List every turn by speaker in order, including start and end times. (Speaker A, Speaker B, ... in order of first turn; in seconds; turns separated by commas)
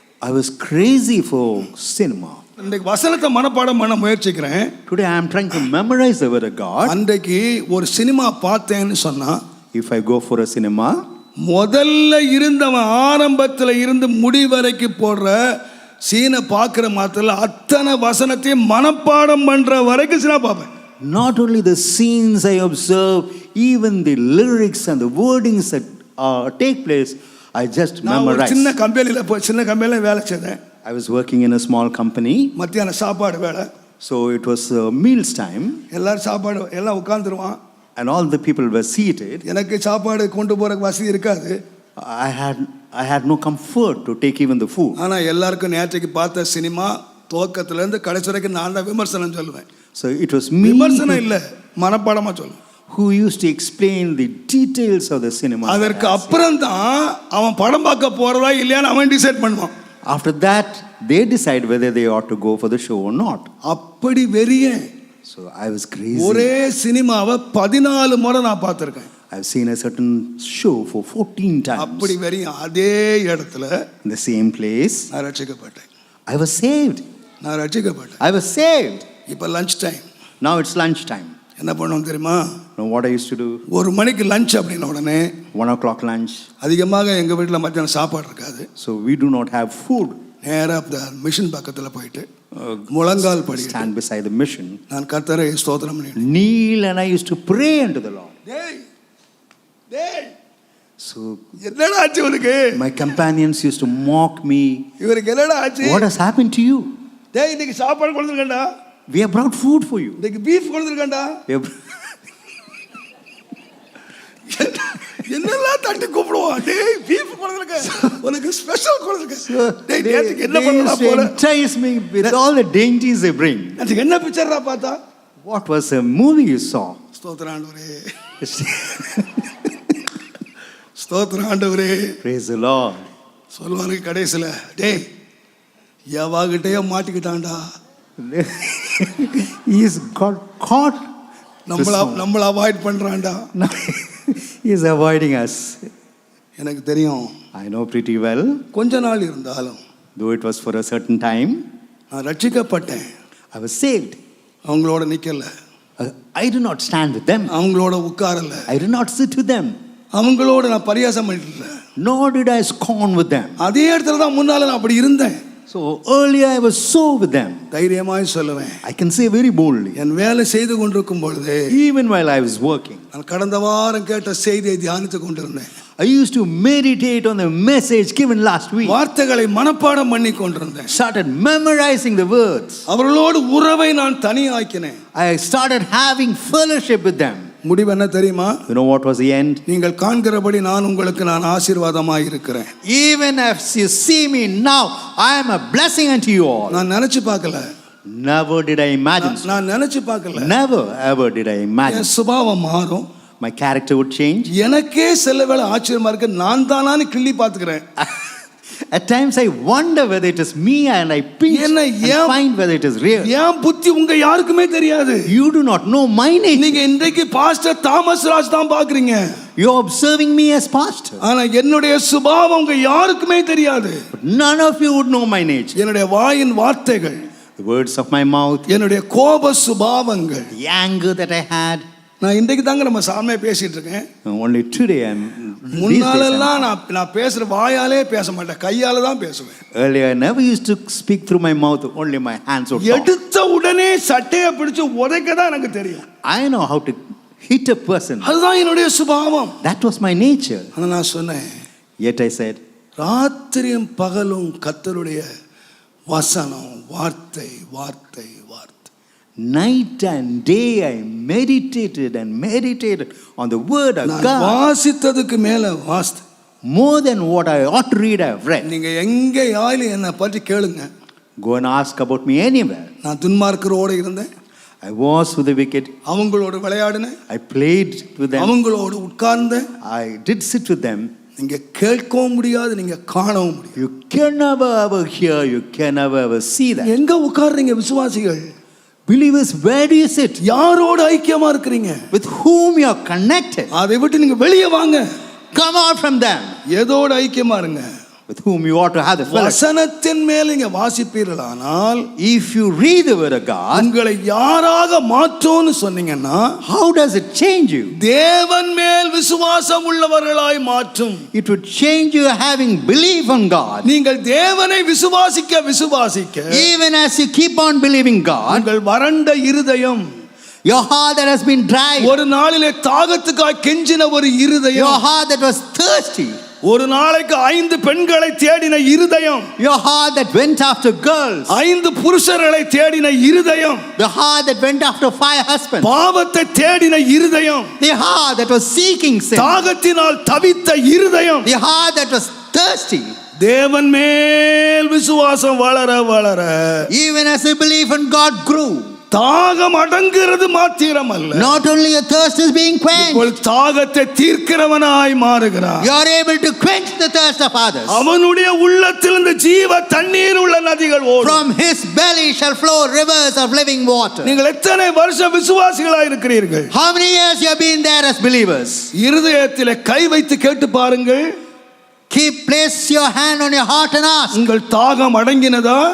Speaker A: 0.2-2.4, Speaker B: 2.6-4.7, Speaker A: 4.8-7.0, Speaker B: 6.8-9.4, Speaker A: 9.7-11.0, Speaker B: 11.4-20.7, Speaker A: 21.0-28.7, Speaker B: 28.0-30.6, Speaker A: 30.8-32.5, Speaker B: 32.5-33.7, Speaker A: 34.0-35.8, Speaker B: 35.9-37.6, Speaker A: 38.0-39.4, Speaker B: 39.4-41.6, Speaker A: 42.0-45.0, Speaker B: 45.0-49.6, Speaker A: 49.9-51.2, Speaker B: 50.6-52.6, Speaker A: 52.9-56.4, Speaker B: 55.6-59.7, Speaker A: 60.1-63.5, Speaker B: 63.6-64.9, Speaker A: 65.2-66.5, Speaker B: 66.1-69.1, Speaker A: 69.3-72.1, Speaker B: 71.8-73.7, Speaker A: 74.0-75.1, Speaker B: 75.1-75.9, Speaker A: 76.3-77.0, Speaker B: 77.4-78.2, Speaker A: 78.2-79.0, Speaker B: 79.3-80.0, Speaker A: 80.4-81.3, Speaker B: 81.6-82.5, Speaker A: 82.8-83.6, Speaker B: 83.7-85.3, Speaker A: 85.5-86.5, Speaker B: 86.6-88.7, Speaker A: 88.8-90.2, Speaker B: 90.4-92.3, Speaker A: 92.6-94.8, Speaker B: 92.9-93.9, Speaker B: 94.9-96.2, Speaker A: 96.2-98.3, Speaker B: 98.5-98.8, Speaker B: 99.9-100.3, Speaker A: 101.0-101.4, Speaker B: 101.6-102.8, Speaker A: 102.7-104.8, Speaker B: 105.0-106.1, Speaker A: 105.8-106.9, Speaker B: 107.3-108.7, Speaker A: 109.1-110.2, Speaker B: 110.2-111.4, Speaker A: 111.5-111.8, Speaker B: 114.5-121.3, Speaker A: 119.4-123.8, Speaker B: 123.8-125.0, Speaker A: 125.4-127.0, Speaker B: 127.2-128.1, Speaker A: 128.4-130.0, Speaker B: 130.9-132.2, Speaker A: 132.2-133.1, Speaker B: 133.5-135.0, Speaker B: 136.1-137.6, Speaker A: 138.2-141.1, Speaker B: 141.7-143.5, Speaker A: 141.7-142.2, Speaker A: 143.5-145.9, Speaker B: 146.6-147.3, Speaker A: 147.5-148.6, Speaker B: 148.7-149.8, Speaker A: 150.2-151.6, Speaker B: 152.1-153.1, Speaker A: 153.5-154.2, Speaker B: 154.7-155.5, Speaker A: 156.0-157.5, Speaker B: 157.5-158.7, Speaker A: 158.7-159.8, Speaker B: 160.1-161.8, Speaker A: 162.0-163.6, Speaker B: 163.6-165.4, Speaker A: 165.7-167.7, Speaker B: 167.7-168.8, Speaker A: 168.8-170.0, Speaker B: 169.9-171.7, Speaker A: 171.7-173.0, Speaker B: 173.1-175.7, Speaker A: 176.0-179.0, Speaker B: 178.8-180.9, Speaker A: 180.9-182.8, Speaker B: 182.9-185.0, Speaker A: 185.1-187.5, Speaker B: 187.6-188.6, Speaker A: 188.7-189.6, Speaker B: 189.7-192.7, Speaker A: 192.8-196.8, Speaker B: 196.7-197.6, Speaker A: 198.1-199.6, Speaker B: 199.2-200.5, Speaker A: 200.3-202.1, Speaker B: 201.9-203.1, Speaker A: 203.4-204.5, Speaker B: 204.5-207.8, Speaker A: 208.0-208.4, Speaker A: 208.9-213.3, Speaker B: 211.5-212.4, Speaker B: 213.2-215.3, Speaker A: 215.3-216.8, Speaker B: 216.5-219.3, Speaker A: 219.6-221.2, Speaker B: 221.2-224.0, Speaker A: 224.1-225.8, Speaker B: 225.7-227.2, Speaker A: 227.6-228.7, Speaker B: 228.7-230.5, Speaker A: 230.5-231.8, Speaker B: 232.2-234.1, Speaker A: 234.2-236.7, Speaker B: 235.7-239.6, Speaker A: 239.7-243.1, Speaker B: 242.8-246.1, Speaker A: 246.2-248.3, Speaker B: 248.2-249.6, Speaker A: 249.6-250.7, Speaker B: 250.8-251.5, Speaker A: 252.0-252.6, Speaker B: 253.0-255.2, Speaker B: 256.1-258.9, Speaker A: 259.4-264.6, Speaker B: 264.0-266.2, Speaker A: 266.7-268.7, Speaker B: 268.6-270.9, Speaker A: 271.4-272.9, Speaker B: 273.0-274.3, Speaker A: 274.8-275.9, Speaker B: 276.1-277.2, Speaker A: 277.3-278.5, Speaker B: 278.4-279.7, Speaker A: 279.8-281.1, Speaker B: 281.4-283.8, Speaker A: 283.8-286.9, Speaker B: 286.8-288.4, Speaker A: 289.1-290.4, Speaker B: 290.4-292.0, Speaker A: 292.1-293.7, Speaker B: 293.7-295.0, Speaker A: 295.5-296.6, Speaker B: 296.7-297.9, Speaker A: 298.3-299.6, Speaker B: 299.3-302.1, Speaker A: 302.2-303.9, Speaker B: 303.7-306.6, Speaker A: 306.6-307.9, Speaker B: 308.0-311.2, Speaker A: 311.3-313.9, Speaker B: 313.8-316.6, Speaker A: 316.5-318.7, Speaker B: 318.5-320.0, Speaker A: 320.6-322.2, Speaker B: 322.0-325.0, Speaker A: 324.7-326.4, Speaker B: 326.6-329.5, Speaker A: 329.6-331.5, Speaker B: 331.5-333.9, Speaker A: 333.9-335.9, Speaker B: 335.8-337.7, Speaker A: 337.8-339.7, Speaker B: 339.3-341.5, Speaker A: 341.4-343.1, Speaker B: 343.4-346.9, Speaker A: 346.9-348.9, Speaker B: 349.1-351.5, Speaker A: 351.3-353.3, Speaker B: 352.9-355.9, Speaker A: 355.8-358.0, Speaker B: 357.9-361.4, Speaker A: 361.2-364.4, Speaker B: 364.2-366.7, Speaker A: 366.7-368.9, Speaker B: 368.9-371.2, Speaker A: 372.1-374.4, Speaker B: 374.3-375.8